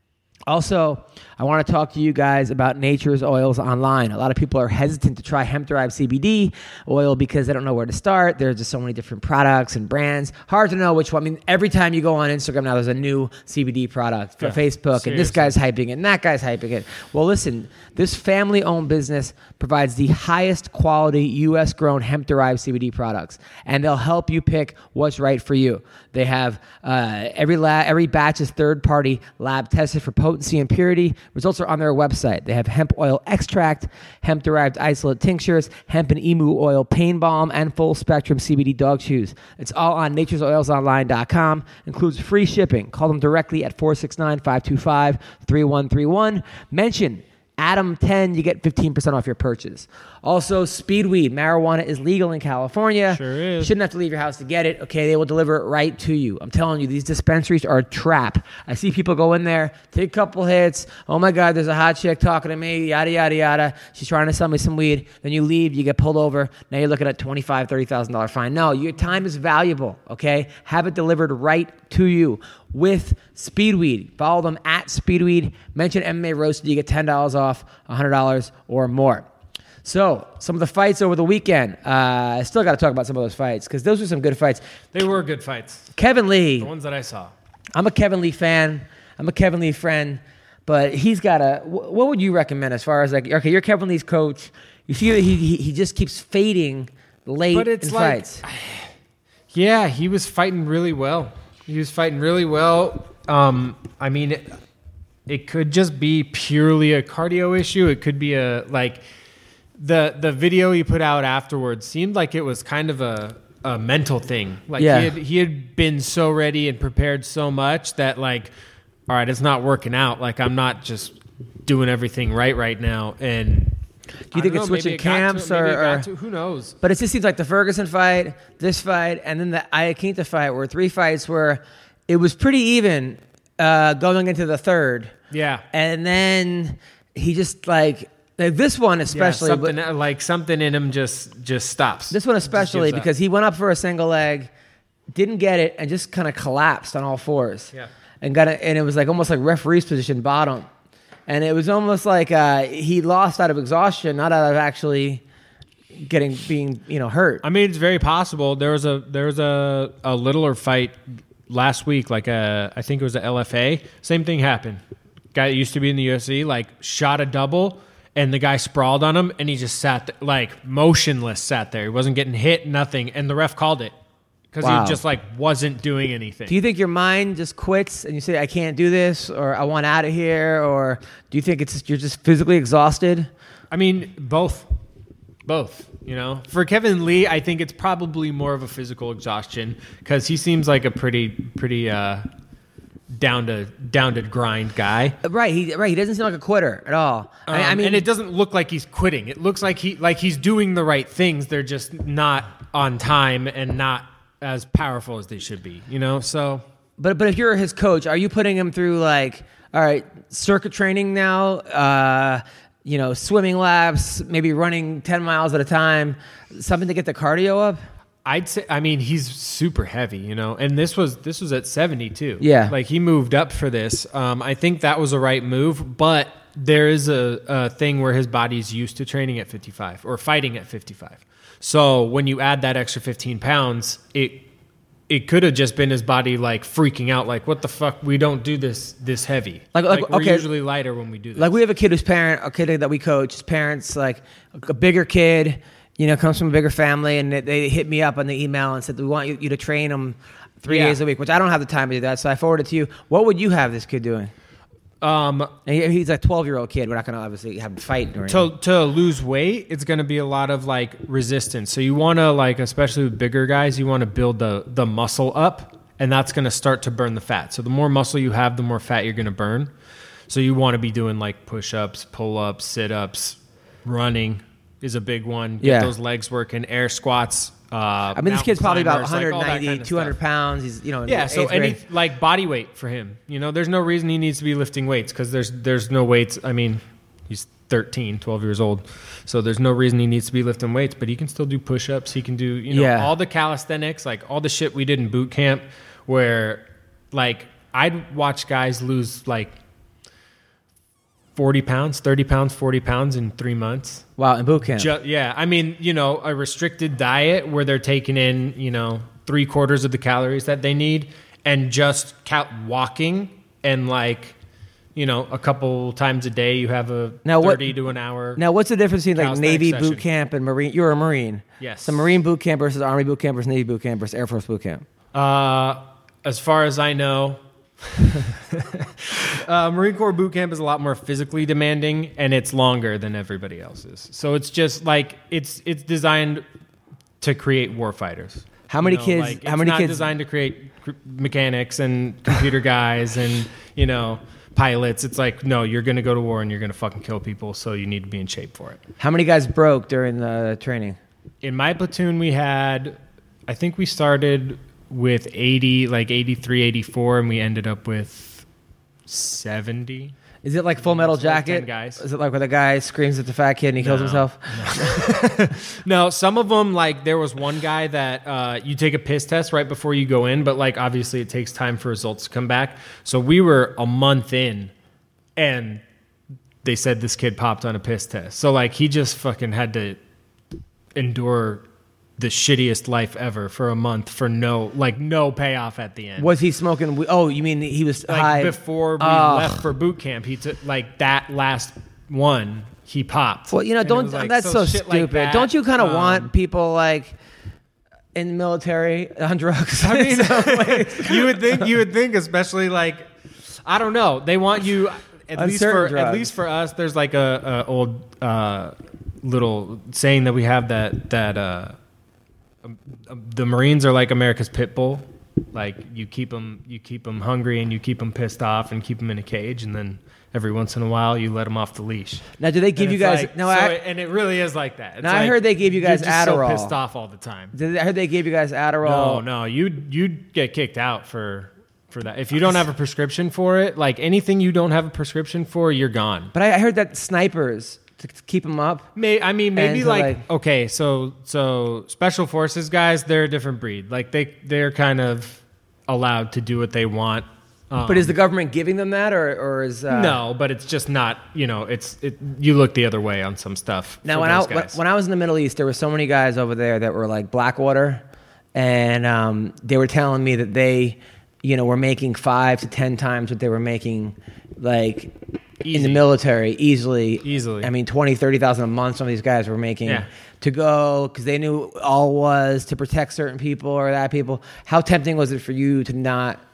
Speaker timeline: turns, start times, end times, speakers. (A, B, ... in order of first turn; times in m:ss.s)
0:00.5-1:19.2 A
0:14.4-0:15.6 B
0:53.1-0:53.7 B
1:19.8-1:24.6 A
1:24.9-1:25.9 B
1:26.0-1:26.7 A
1:26.6-1:27.3 B
1:27.7-1:38.4 A
1:37.5-1:38.9 B
1:39.5-1:44.6 B
1:45.3-1:49.0 B
1:49.8-1:58.5 B
1:54.8-1:55.1 A
1:59.1-2:03.8 B
2:04.3-2:06.8 B
2:04.3-2:06.1 A
2:06.8-2:15.1 A
2:15.3-2:15.6 B
2:15.7-2:19.8 A
2:19.1-2:23.1 B
2:22.1-2:24.5 A
2:25.1-2:30.7 A
2:31.3-2:35.2 A
2:35.9-2:37.4 A
2:37.4-2:44.8 B
2:45.3-2:53.9 B
2:54.5-2:56.6 B
2:54.6-2:55.0 A
2:56.5-3:03.3 A
3:03.7-3:04.7 B
3:05.4-3:12.2 B
3:13.1-3:15.2 B
3:15.2-3:18.1 A
3:17.5-3:26.6 B
3:27.0-3:37.8 A
3:38.2-3:54.5 B
3:42.4-3:42.7 A
3:55.1-4:01.6 B
3:59.7-4:00.5 A
4:01.4-4:14.3 A
4:10.7-4:11.0 B
4:15.0-4:15.5 B
4:15.6-4:18.5 A
4:18.3-4:29.7 B
4:30.3-4:40.2 B
4:35.6-4:35.9 A
4:38.1-4:41.8 A
4:41.1-4:59.6 B
4:52.7-4:53.1 A
5:01.4-5:04.0 B
5:04.2-5:04.9 A
5:04.8-5:14.4 B
5:14.9-5:18.4 B
5:17.2-5:17.7 A
5:18.4-5:24.8 A
5:19.1-5:20.0 B
5:21.6-5:22.1 B
5:25.1-5:36.4 B
5:37.2-5:48.8 B
5:38.7-5:40.1 A
5:49.0-5:51.0 A
5:51.4-5:58.4 B
5:59.1-6:00.1 B
6:00.4-6:05.2 A
6:00.8-6:02.0 B
6:03.8-6:14.7 B
6:15.4-6:15.8 B
6:16.6-6:20.0 B
6:20.9-6:21.6 B
6:22.2-6:26.3 B
6:26.2-6:29.7 A
6:28.1-6:36.3 B
6:33.5-6:37.2 A
6:38.2-6:41.7 A
6:39.8-6:43.1 B
6:43.6-6:51.8 B
6:45.3-6:46.3 A
6:52.6-7:02.2 B
7:02.4-7:03.8 A
7:02.8-7:07.5 B
7:05.0-7:06.8 A
7:07.5-7:09.2 A
7:08.8-7:16.3 B
7:16.3-7:18.9 A
7:19.0-7:28.2 B
7:19.6-7:20.2 A
7:27.8-7:30.2 A
7:29.9-7:34.8 B
7:34.0-7:38.0 A
7:38.6-7:45.1 A
7:45.6-7:46.0 B
7:45.7-7:56.4 A
7:47.2-7:47.7 B